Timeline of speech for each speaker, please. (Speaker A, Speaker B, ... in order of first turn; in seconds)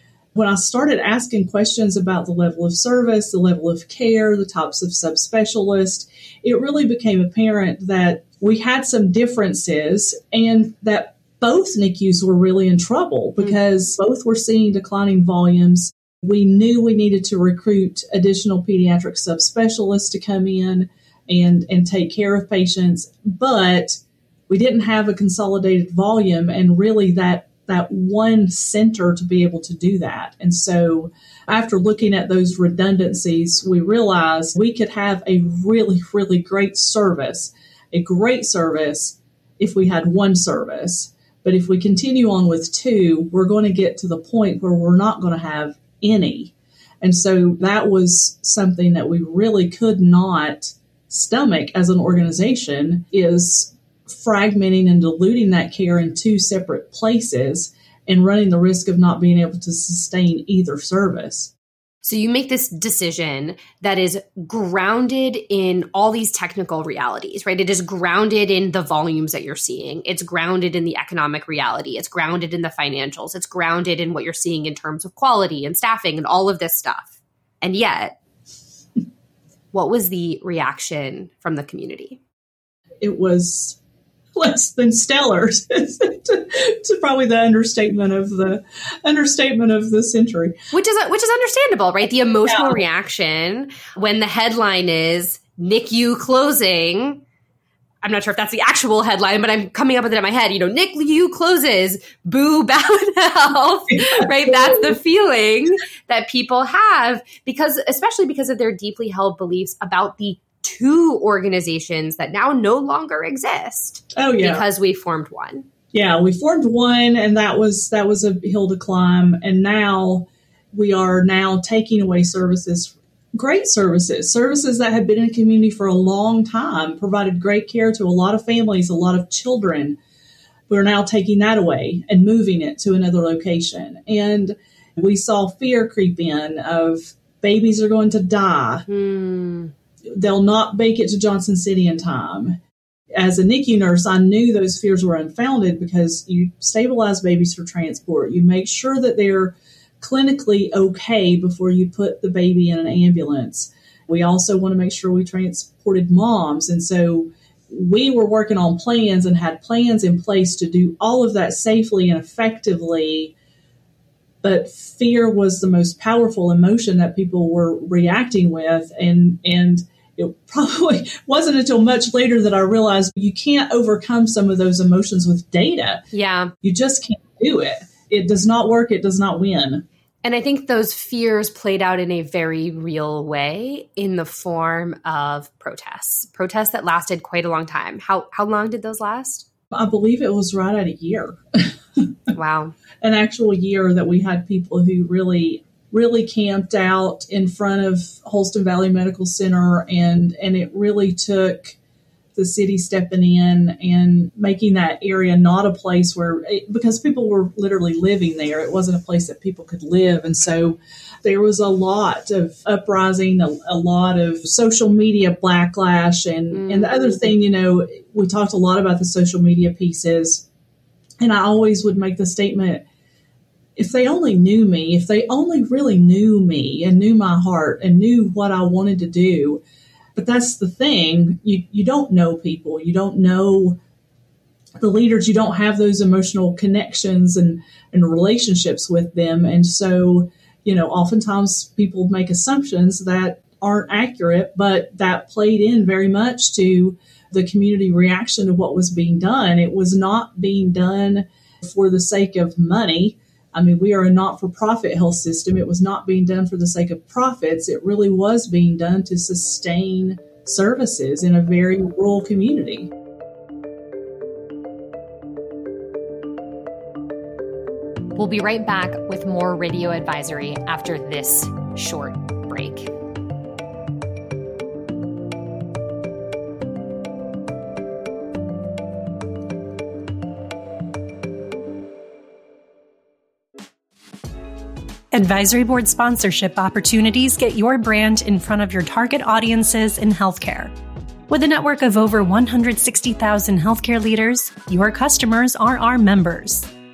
Speaker A: 0.3-61.5, 83.0-83.8, 84.4-90.5, 92.5-92.8, 104.0-104.9, 114.1-114.6, 115.9-130.0, 130.7-138.9, 140.1-142.6, 143.1-163.3, 164.4-176.1, 176.6-179.8, 189.7-192.1, 193.0-201.8, 202.3-220.4, 221.2-222.8, 223.8-229.6, 230.1-233.8, 234.8-262.9
Speaker B: 62.0-78.2, 79.7-82.2, 90.7-97.2, 98.0-115.7, 138.9-139.7, 176.1-176.5, 180.2-189.5, 192.3-192.8, 216.5-217.2, 268.2-272.9
Speaker C: 285.1-290.7, 291.3-296.7